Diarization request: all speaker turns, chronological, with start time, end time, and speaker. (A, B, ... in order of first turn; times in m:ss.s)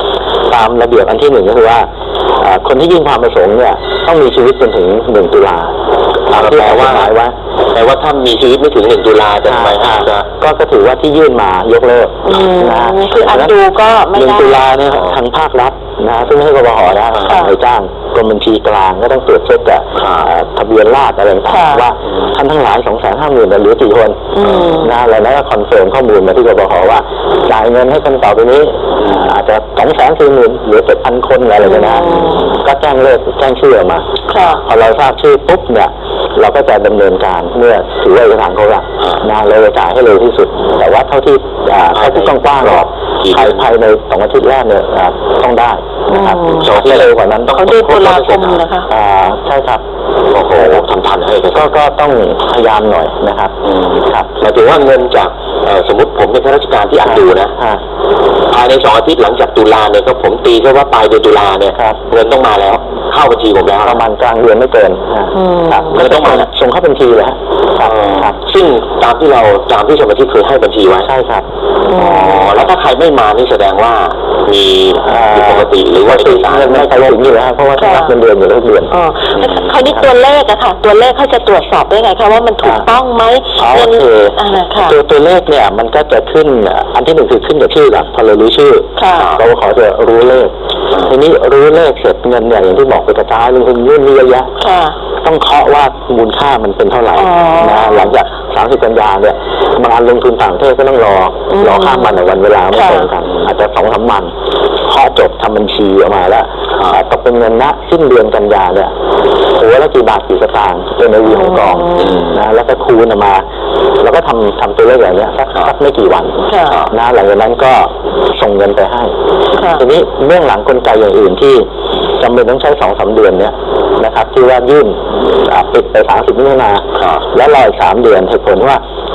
0:00.5-0:05.8 A
0:06.3-0:07.3 A
0:06.3-0:07.1 B
0:07.7-0:10.3 B
0:09.5-0:13.5 A
0:12.3-0:14.6 C
0:14.2-0:48.1 A
0:17.3-0:17.5 C
0:20.0-0:20.3 B
0:21.5-0:21.8 C
0:24.4-0:24.9 C
0:24.4-0:24.9 B
0:29.0-0:29.3 B
0:31.6-0:32.4 C
0:32.0-0:32.5 B
0:34.3-0:34.6 C
0:41.9-0:43.7 B
0:46.1-0:46.7 C
0:46.5-0:48.6 B
0:47.5-0:48.9 C
0:48.9-0:49.8 A
0:50.3-0:51.7 B
0:50.5-0:50.9 A
0:51.5-0:53.6 A
0:53.6-0:57.5 B
0:54.1-0:54.3 A
0:57.0-0:57.8 A
0:58.5-1:04.0 B
1:01.7-1:02.0 A
1:03.8-1:08.4 A
1:05.3-1:06.0 C
1:05.9-1:06.5 B
1:07.8-1:11.1 B
1:11.0-1:12.0 A
1:11.9-1:12.4 C
1:11.9-1:17.4 B
1:15.0-1:18.9 A
1:17.8-1:18.2 C
1:18.9-1:25.0 C
1:19.4-1:19.7 B
1:23.6-1:34.5 A
1:29.0-1:29.4 C
1:34.6-1:35.0 C
1:35.2-1:44.3 A
1:37.1-1:38.2 C
1:41.5-1:42.1 C
1:42.7-1:43.1 C
1:44.9-1:48.9 A
1:49.6-1:53.4 A
1:51.3-1:52.2 C
1:52.0-1:52.4 B
1:54.0-1:59.1 A
1:56.4-1:56.8 C
1:59.6-1:59.8 C
1:59.7-2:01.7 A
2:02.2-2:08.8 A
2:07.0-2:07.2 B